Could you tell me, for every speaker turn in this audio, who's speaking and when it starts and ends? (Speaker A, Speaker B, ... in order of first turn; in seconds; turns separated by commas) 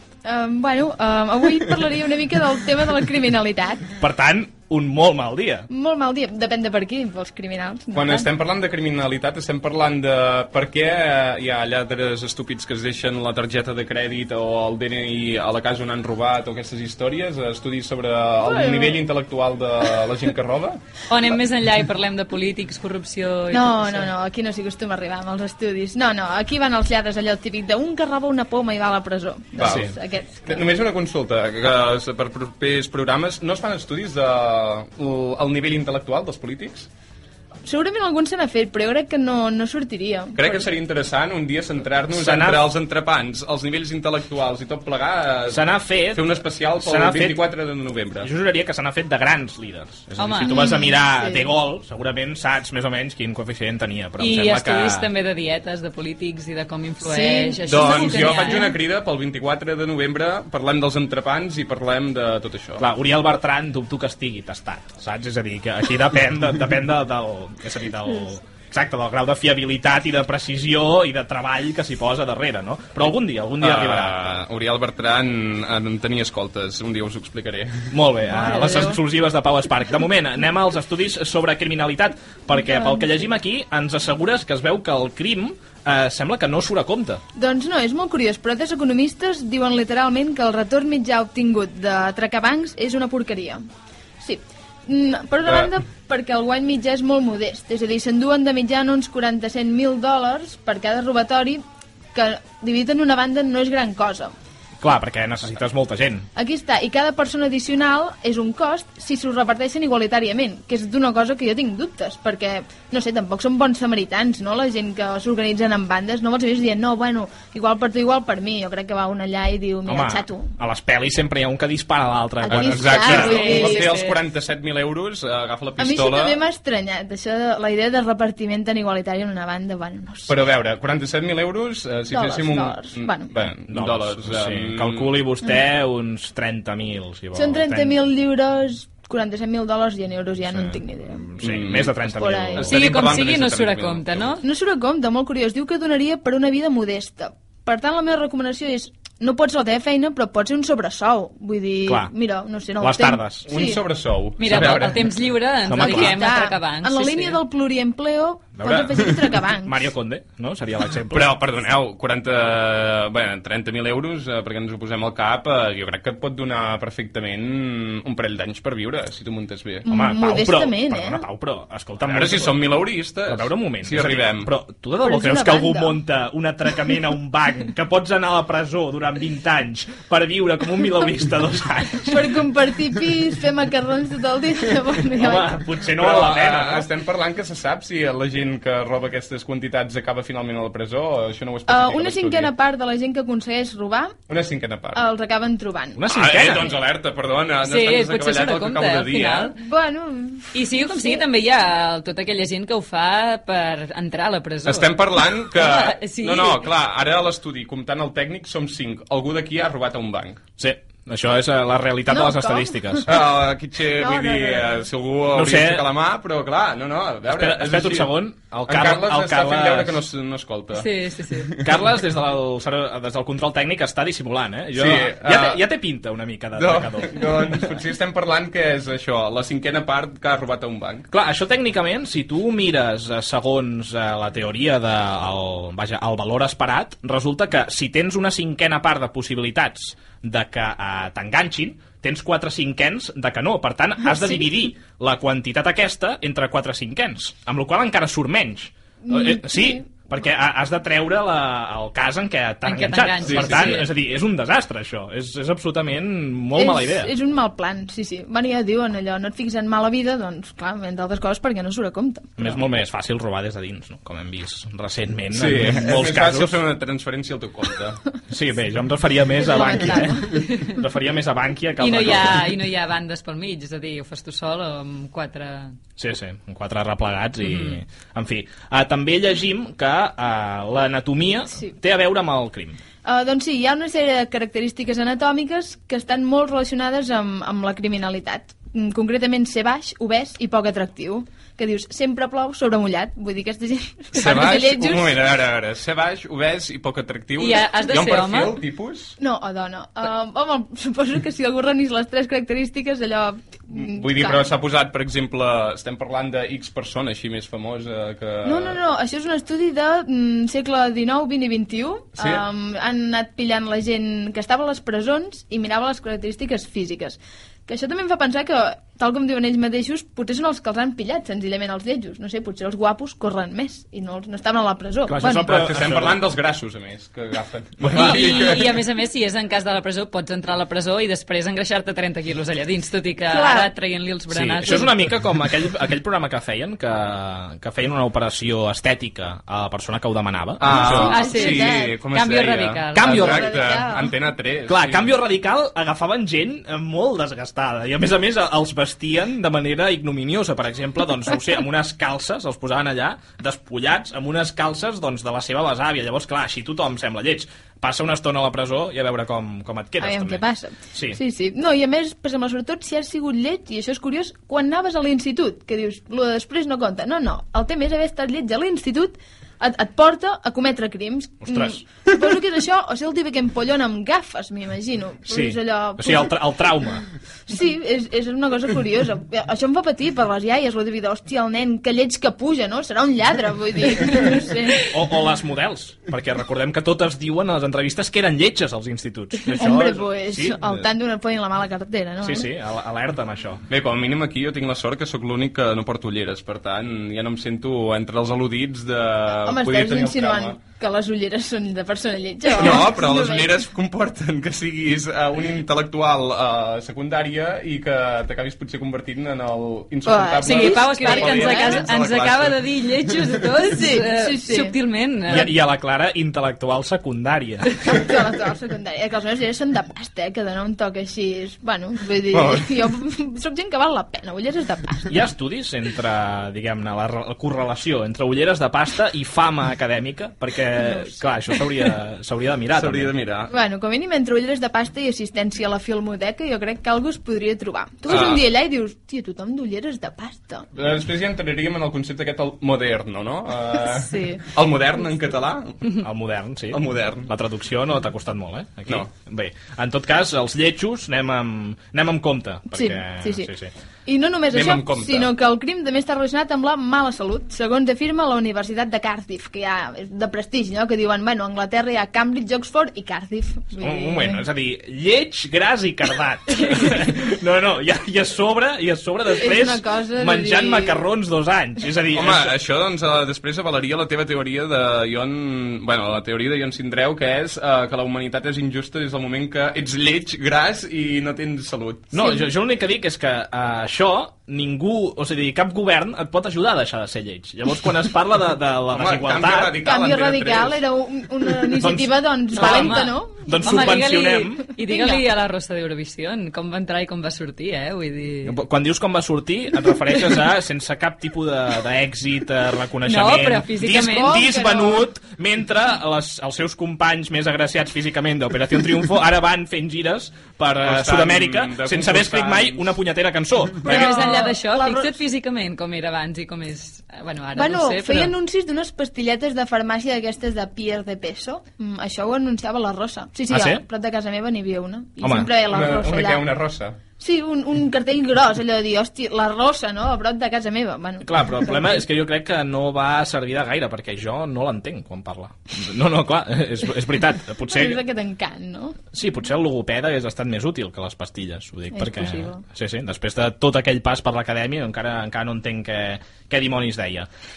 Speaker A: 0.2-3.9, Speaker B: 4.0-5.7, Speaker A: 5.7-8.3, Speaker C: 8.0-20.8, Speaker A: 18.4-19.1, Speaker D: 21.1-24.1, Speaker A: 23.5-30.7, Speaker C: 29.6-29.9, Speaker B: 29.6-29.9, Speaker C: 30.4-36.9, Speaker A: 37.6-40.5, Speaker C: 40.4-48.3, Speaker B: 42.1-42.7, Speaker B: 45.5-47.5, Speaker B: 48.2-55.1, Speaker D: 50.2-50.5, Speaker A: 50.4-51.5, Speaker D: 54.2-58.7, Speaker A: 57.0-58.8, Speaker C: 57.7-62.8, Speaker B: 62.8-74.2, Speaker C: 73.6-77.9, Speaker B: 77.9-87.2, Speaker A: 78.3-79.0, Speaker A: 87.3-93.6, Speaker A: 94.2-101.6, Speaker A: 102.1-104.3, Speaker B: 104.8-106.3, Speaker A: 106.4-120.5, Speaker B: 119.9-123.6, Speaker A: 122.4-123.9, Speaker C: 122.5-126.4, Speaker D: 123.2-124.2, Speaker A: 125.8-130.3, Speaker C: 130.3-135.2, Speaker A: 132.1-133.3, Speaker B: 133.7-138.0, Speaker A: 137.3-141.3, Speaker B: 140.4-142.8, Speaker C: 141.4-141.9, Speaker A: 142.0-142.8, Speaker C: 142.6-144.4, Speaker D: 142.6-144.4, Speaker A: 144.4-153.8, Speaker B: 151.9-152.1, Speaker B: 152.8-153.5, Speaker C: 153.5-155.0, Speaker D: 154.4-157.4, Speaker B: 154.5-154.8, Speaker B: 155.7-156.2, Speaker A: 155.7-159.9, Speaker B: 158.6-161.3, Speaker C: 161.1-169.9, Speaker A: 169.8-171.2, Speaker B: 169.9-182.3, Speaker C: 172.0-174.5, Speaker A: 175.0-176.0, Speaker A: 182.1-185.6, Speaker B: 185.2-186.9, Speaker C: 186.0-192.5, Speaker A: 191.7-194.2, Speaker C: 194.3-195.0, Speaker A: 194.9-196.6, Speaker B: 196.0-196.7, Speaker C: 196.1-199.5, Speaker D: 197.6-199.5, Speaker A: 199.6-201.2, Speaker D: 200.5-206.7, Speaker C: 204.7-210.4, Speaker B: 210.6-213.1, Speaker A: 212.1-213.1, Speaker C: 213.1-218.1, Speaker A: 214.0-214.9, Speaker B: 215.3-215.9, Speaker B: 217.2-220.0, Speaker C: 218.7-221.7, Speaker D: 220.7-221.6, Speaker B: 221.6-227.8, Speaker C: 224.8-225.6, Speaker C: 226.6-231.1, Speaker B: 231.1-257.1, Speaker A: 249.0-249.9, Speaker D: 252.7-253.9, Speaker C: 253.3-253.6, Speaker A: 256.6-262.5, Speaker B: 262.4-266.6, Speaker C: 265.3-268.0, Speaker B: 268.3-272.5, Speaker A: 269.4-270.4, Speaker D: 271.8-275.7, Speaker B: 276.0-282.8, Speaker D: 277.4-277.8, Speaker A: 283.0-295.2, Speaker C: 294.1-299.2, Speaker D: 297.4-298.6, Speaker A: 299.2-304.5, Speaker C: 303.8-308.8, Speaker A: 308.4-325.5, Speaker B: 325.1-326.2, Speaker C: 325.5-328.7, Speaker B: 327.8-328.5, Speaker D: 327.9-335.1, Speaker A: 333.3-333.7, Speaker B: 334.3-341.1, Speaker C: 340.6-345.1, Speaker A: 340.7-342.0, Speaker D: 340.8-343.4, Speaker B: 342.9-343.7, Speaker A: 343.1-344.1, Speaker B: 344.7-361.2, Speaker A: 360.0-376.4, Speaker B: 371.4-371.8, Speaker B: 375.3-377.1, Speaker A: 377.5-384.8, Speaker B: 384.9-390.9, Speaker A: 389.5-392.5, Speaker B: 392.2-393.6, Speaker C: 393.7-400.6, Speaker A: 399.4-403.6, Speaker C: 402.5-413.3, Speaker A: 410.1-411.8, Speaker D: 410.4-415.5, Speaker A: 413.7-414.8, Speaker B: 415.3-417.7, Speaker A: 417.8-425.2, Speaker C: 422.3-422.7, Speaker B: 425.1-433.1, Speaker A: 430.8-431.3, Speaker C: 432.8-433.5, Speaker A: 433.5-440.7, Speaker C: 438.1-438.4, Speaker C: 440.8-445.9, Speaker A: 443.8-444.4, Speaker B: 446.0-453.7, Speaker C: 446.7-447.3, Speaker A: 452.7-453.5, Speaker A: 454.1-464.4, Speaker C: 454.5-455.3, Speaker B: 463.8-472.6, Speaker A: 469.3-471.1, Speaker C: 472.1-482.1, Speaker B: 482.1-489.8, Speaker A: 482.2-482.5, Speaker C: 488.9-490.8, Speaker A: 489.8-494.0, Speaker B: 491.7-494.7, Speaker D: 492.6-498.5, Speaker A: 494.9-495.2, Speaker B: 498.4-513.9, Speaker D: 503.1-504.4, Speaker A: 504.0-505.1, Speaker C: 510.8-513.0, Speaker A: 513.8-515.1, Speaker D: 513.9-518.3, Speaker A: 517.5-526.4, Speaker B: 523.5-523.8, Speaker B: 525.2-525.5, Speaker C: 525.7-527.0, Speaker A: 527.2-532.0, Speaker B: 531.2-538.0, Speaker A: 537.7-539.0, Speaker B: 539.1-547.3, Speaker A: 541.9-542.6